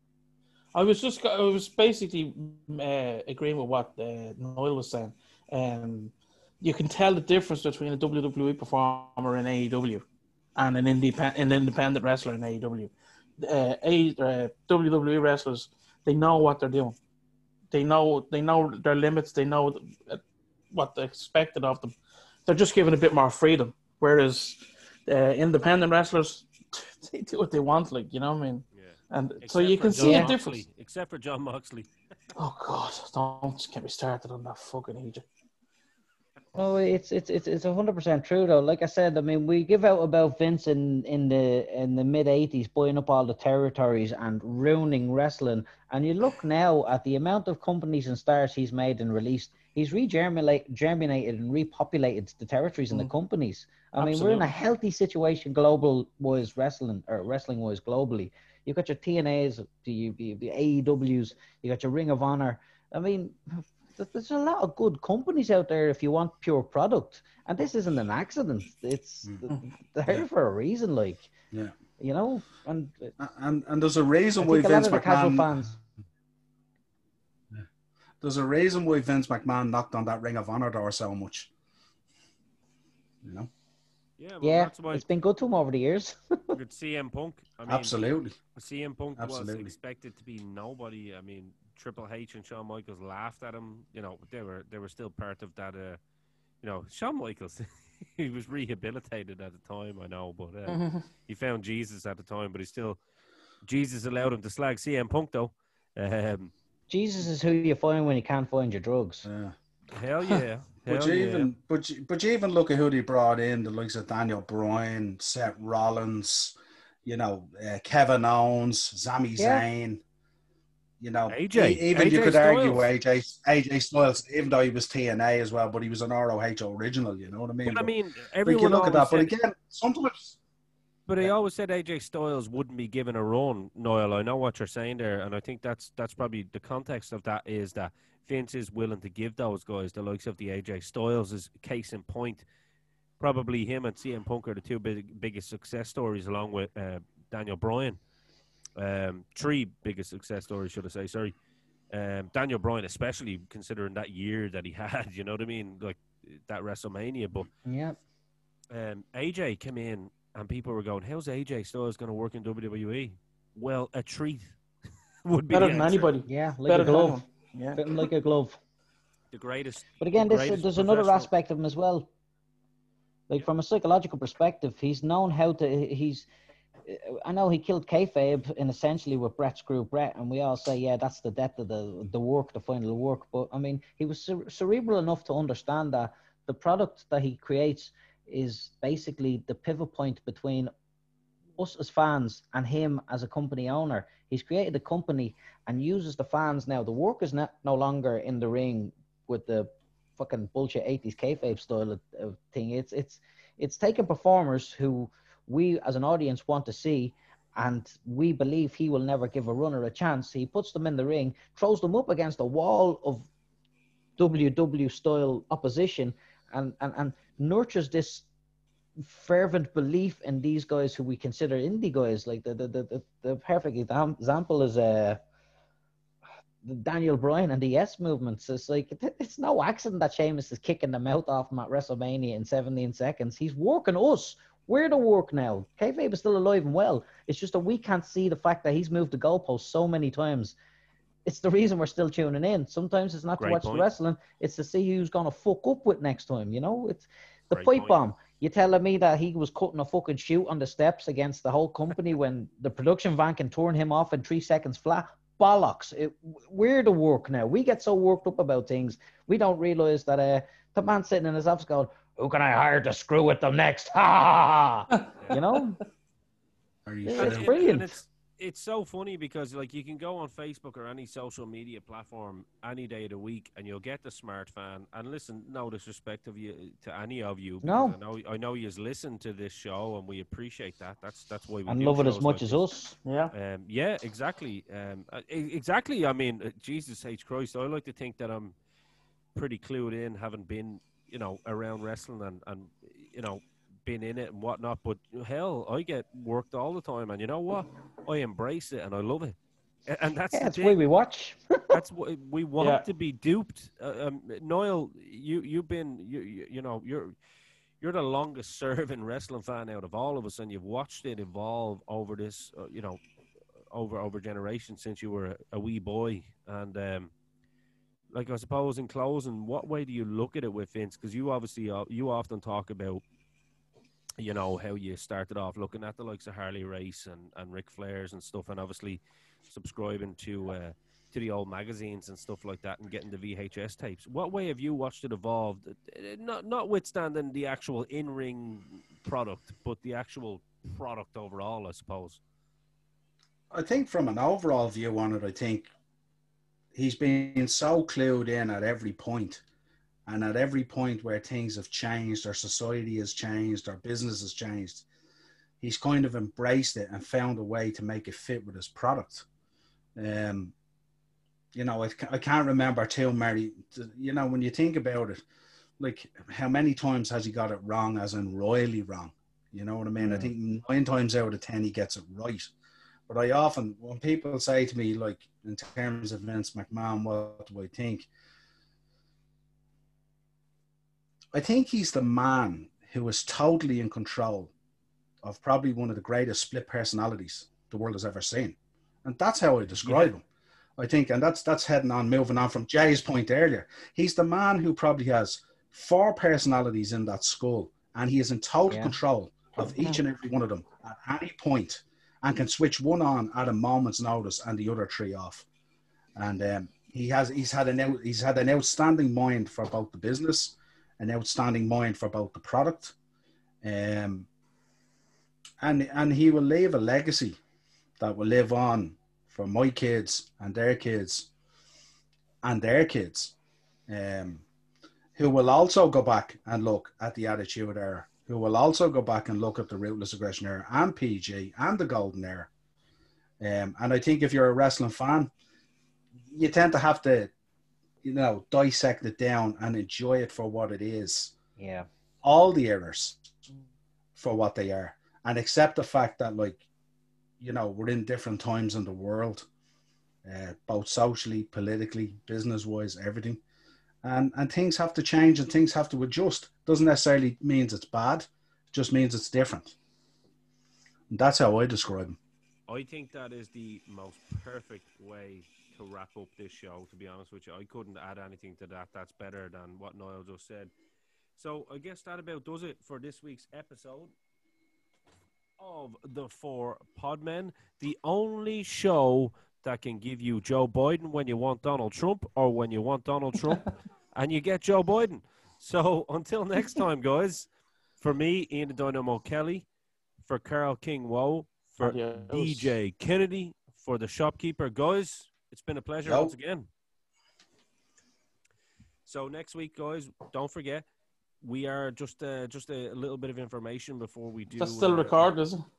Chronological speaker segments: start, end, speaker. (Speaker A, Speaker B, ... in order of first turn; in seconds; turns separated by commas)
Speaker A: 0.7-10.0, Speaker A: 10.6-17.0, Speaker A: 17.7-21.9, Speaker A: 22.5-30.6, Speaker B: 28.7-31.9, Speaker C: 30.0-30.3, Speaker A: 32.4-35.2, Speaker C: 36.5-71.3, Speaker A: 54.0-54.5, Speaker C: 72.0-73.1, Speaker D: 73.2-75.7, Speaker C: 74.4-75.7, Speaker D: 78.2-81.5, Speaker D: 83.2-83.5, Speaker B: 84.2-85.0, Speaker C: 84.4-86.4, Speaker B: 86.5-88.0, Speaker D: 87.7-88.4, Speaker B: 88.5-96.0, Speaker D: 89.2-89.7, Speaker B: 96.6-103.0, Speaker A: 100.7-101.0, Speaker B: 103.6-106.5, Speaker C: 106.9-109.3, Speaker D: 109.2-109.5, Speaker B: 109.9-111.5, Speaker D: 110.9-116.5, Speaker D: 117.0-120.0, Speaker C: 119.4-119.7, Speaker D: 121.0-127.9, Speaker B: 121.3-122.9, Speaker B: 127.7-129.3, Speaker D: 128.4-130.4, Speaker B: 131.1-142.4, Speaker B: 143.2-148.0, Speaker B: 148.8-151.3, Speaker B: 151.9-157.5, Speaker C: 157.7-158.0, Speaker B: 158.7-164.6, Speaker B: 165.2-166.1, Speaker A: 165.5-168.1, Speaker C: 166.3-167.2, Speaker C: 167.8-168.6, Speaker B: 169.3-171.3, Speaker C: 170.0-172.1, Speaker C: 173.3-176.3, Speaker C: 176.9-190.7, Speaker C: 191.6-213.3, Speaker C: 214.2-218.3, Speaker C: 219.0-225.2, Speaker C: 226.6-240.6, Speaker C: 241.2-265.8, Speaker B: 243.4-243.9, Speaker B: 247.5-248.0, Speaker D: 266.9-267.6, Speaker C: 267.1-267.9, Speaker B: 267.1-282.7, Speaker C: 277.6-278.0, Speaker C: 281.7-283.0, Speaker A: 283.1-283.3, Speaker B: 283.3-288.6, Speaker B: 289.4-299.4, Speaker B: 299.9-300.8, Speaker C: 300.3-301.8, Speaker B: 301.7-307.1, Speaker A: 302.6-302.9, Speaker B: 307.8-313.0, Speaker B: 313.7-317.1, Speaker B: 318.1-323.0, Speaker B: 324.2-342.2, Speaker D: 343.5-345.7, Speaker D: 346.7-349.4, Speaker D: 350.1-354.9, Speaker D: 355.6-359.3, Speaker D: 360.0-360.5, Speaker D: 361.5-365.2, Speaker D: 365.8-372.5, Speaker D: 373.1-378.1, Speaker D: 381.3-384.5, Speaker D: 385.2-390.2, Speaker B: 389.8-390.1, Speaker D: 390.8-405.5, Speaker C: 398.7-399.0, Speaker A: 399.6-400.0, Speaker D: 406.2-412.9, Speaker D: 413.6-414.3, Speaker D: 415.6-417.4, Speaker D: 418.0-421.3, Speaker D: 422.4-423.4, Speaker D: 423.9-424.4, Speaker D: 425.2-432.5, Speaker D: 433.4-435.3, Speaker D: 436.3-437.3, Speaker D: 438.0-441.3, Speaker C: 441.6-441.9, Speaker D: 442.2-443.5, Speaker D: 444.2-446.6, Speaker D: 447.4-449.5, Speaker D: 450.2-453.4, Speaker D: 454.0-459.8, Speaker D: 461.1-462.2, Speaker B: 462.7-470.7, Speaker B: 471.4-474.1, Speaker B: 475.6-489.7, Speaker B: 490.2-496.7, Speaker A: 491.8-492.8, Speaker D: 496.1-496.3, Speaker B: 499.1-500.9, Speaker B: 501.4-505.3, Speaker A: 504.6-505.6